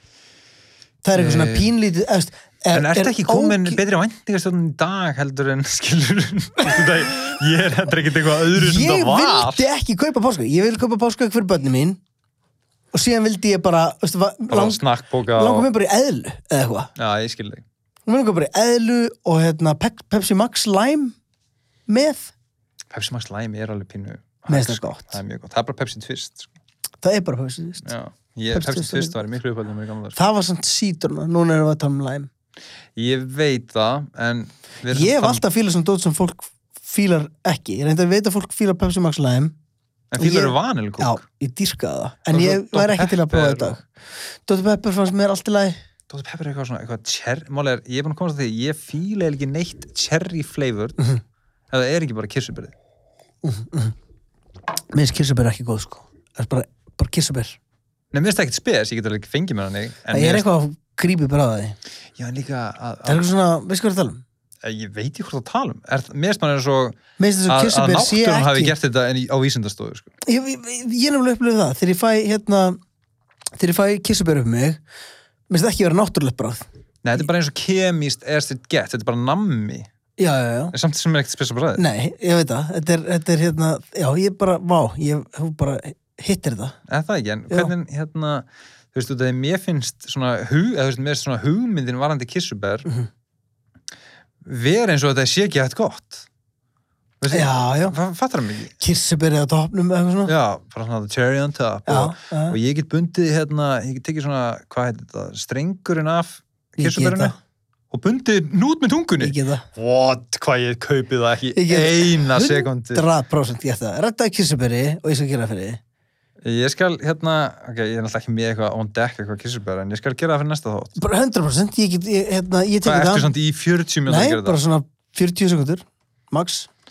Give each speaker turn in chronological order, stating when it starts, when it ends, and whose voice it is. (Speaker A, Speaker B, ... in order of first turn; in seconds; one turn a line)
Speaker A: 1.0-3.8
Speaker B: 1.1-1.7
Speaker B: 2.7-9.7
Speaker A: 8.5-12.0
Speaker A: 12.9-14.8
Speaker B: 14.5-15.7
Speaker A: 15.3-16.9
Speaker B: 17.0-17.6
Speaker A: 18.1-21.1
Speaker A: 21.9-22.3
Speaker B: 22.9-26.5
Speaker A: 24.5-25.2
Speaker A: 27.0-27.9
Speaker B: 27.9-30.2
Speaker A: 28.5-29.2
Speaker A: 30.1-32.3
Speaker B: 33.0-35.4
Speaker A: 34.9-39.5
Speaker B: 40.1-41.2
Speaker A: 40.2-43.9
Speaker B: 42.3-43.7
Speaker A: 44.5-45.8
Speaker B: 46.1-51.0
Speaker B: 51.7-52.7
Speaker A: 53.4-54.0
Speaker A: 54.9-57.6
Speaker B: 58.1-60.5
Speaker A: 60.1-61.8
Speaker B: 62.2-63.2
Speaker A: 63.0-64.2
Speaker B: 64.6-70.1
Speaker A: 67.2-68.7
Speaker A: 70.3-72.8
Speaker A: 73.6-74.8
Speaker A: 75.5-76.6
Speaker B: 77.0-79.9
Speaker A: 80.2-80.7
Speaker B: 80.7-81.8
Speaker A: 81.8-86.8
Speaker B: 86.9-92.9
Speaker B: 94.4-96.3
Speaker B: 97.2-98.7
Speaker A: 97.3-98.0
Speaker A: 98.8-100.3
Speaker B: 100.3-107.3
Speaker A: 101.9-102.6
Speaker A: 106.8-107.3
Speaker B: 107.9-113.1
Speaker A: 109.2-109.7
Speaker A: 111.5-115.8
Speaker B: 116.4-121.0
Speaker A: 121.0-123.3
Speaker B: 122.8-124.6
Speaker A: 124.1-126.7